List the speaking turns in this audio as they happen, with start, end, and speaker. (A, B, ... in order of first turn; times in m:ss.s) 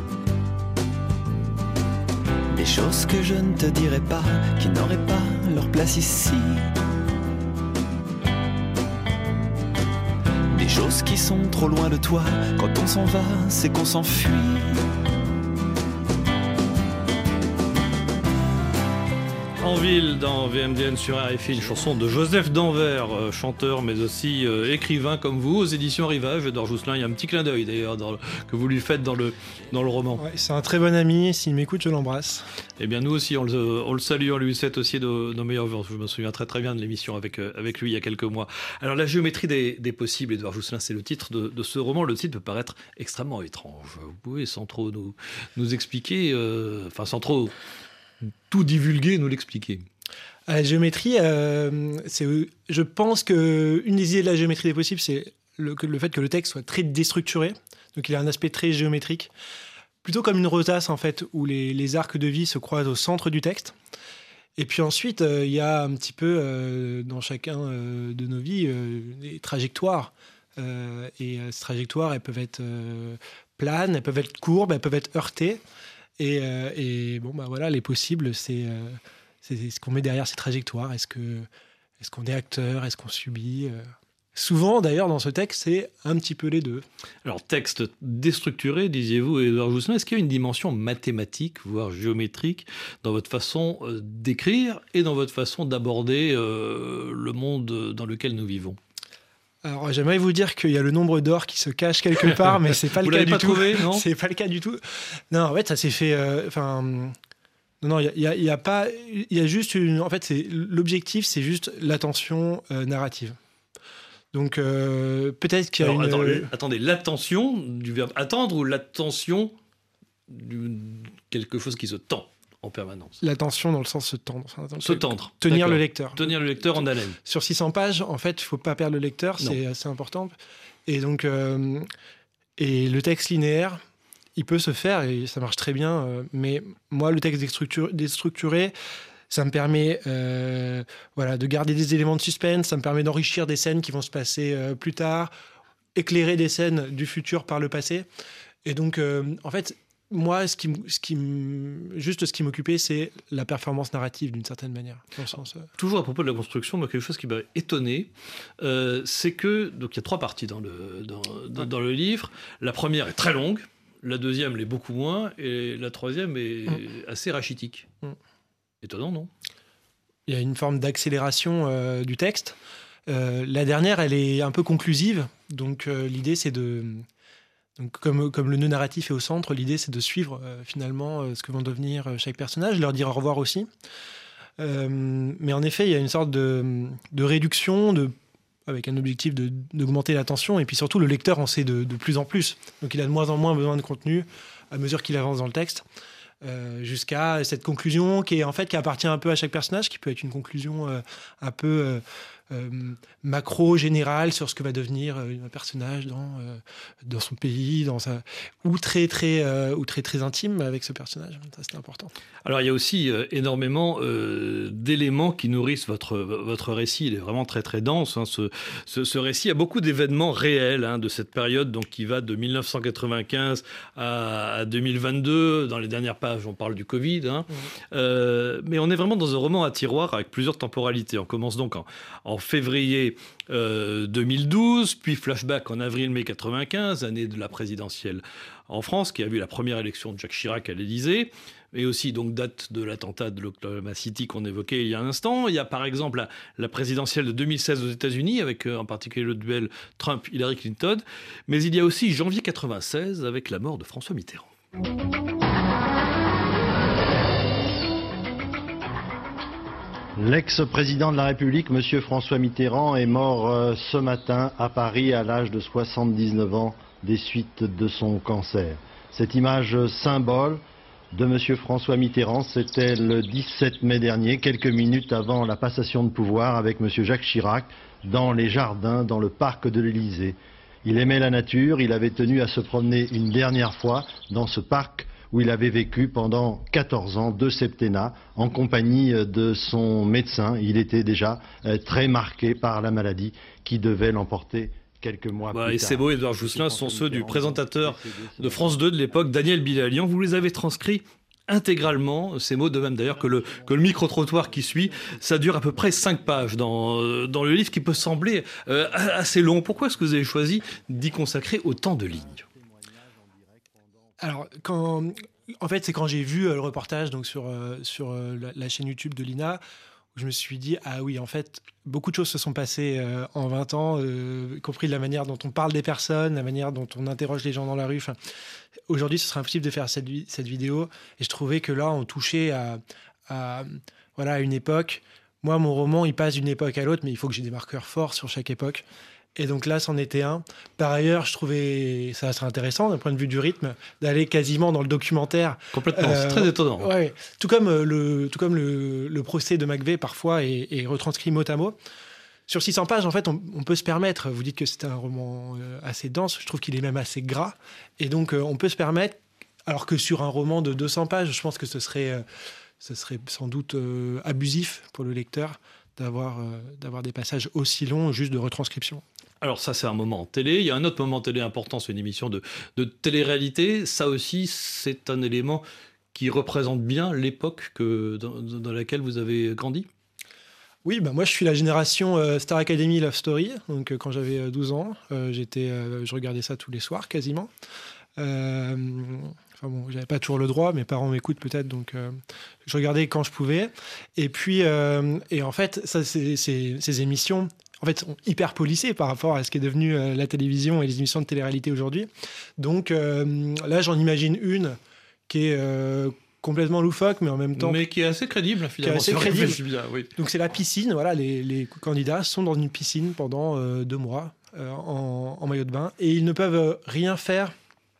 0:02.5-0:06.7 A
0:10.5-0:14.8 A
0:19.6-0:30.2 B
0:30.2-0:32.5 C
0:32.8-0:47.5 B
0:48.5-0:49.8 B
0:50.5-0:59.3 C
1:00.0-1:03.7 C
1:04.6-1:15.6 C
1:16.2-1:21.5 C
1:22.0-1:23.8 C
1:24.3-1:26.8 C
1:27.2-1:38.8 B
1:39.6-1:47.1 C
1:42.2-1:44.0 B
1:47.8-1:53.4 C
1:54.3-1:56.5 C
1:55.8-1:59.5 B
2:00.3-2:03.2 B
2:03.2-2:10.3 C
2:04.8-2:07.2 B
2:10.8-2:11.9 C
2:12.6-2:13.8 C
2:14.4-2:18.7 C
2:19.3-2:25.3 C
2:25.9-2:28.0 C
2:28.6-2:35.7 C
2:35.8-2:47.9 B
2:48.8-2:49.3 B
2:50.3-2:52.6 C
2:53.1-2:57.0 C
2:57.8-3:03.7 C
3:04.6-3:08.1 C
3:08.7-3:15.8 C
3:16.4-3:32.1 C
3:32.4-4:14.5 B
4:20.2-4:59.2 D
4:55.5-5:12.4 B
5:14.2-5:19.6 C
5:20.1-5:28.2 C
5:28.9-5:38.8 C
5:39.4-5:51.8 C
5:45.7-5:46.9 B
5:52.5-6:02.2 C
6:02.8-6:09.0 C
6:09.4-6:15.6 B
6:16.1-6:19.9 B
6:20.8-6:27.5 C
6:28.2-6:44.8 C
6:45.3-6:47.8 C
6:47.6-6:50.1 B
6:48.8-6:49.6 C
6:50.2-6:57.5 C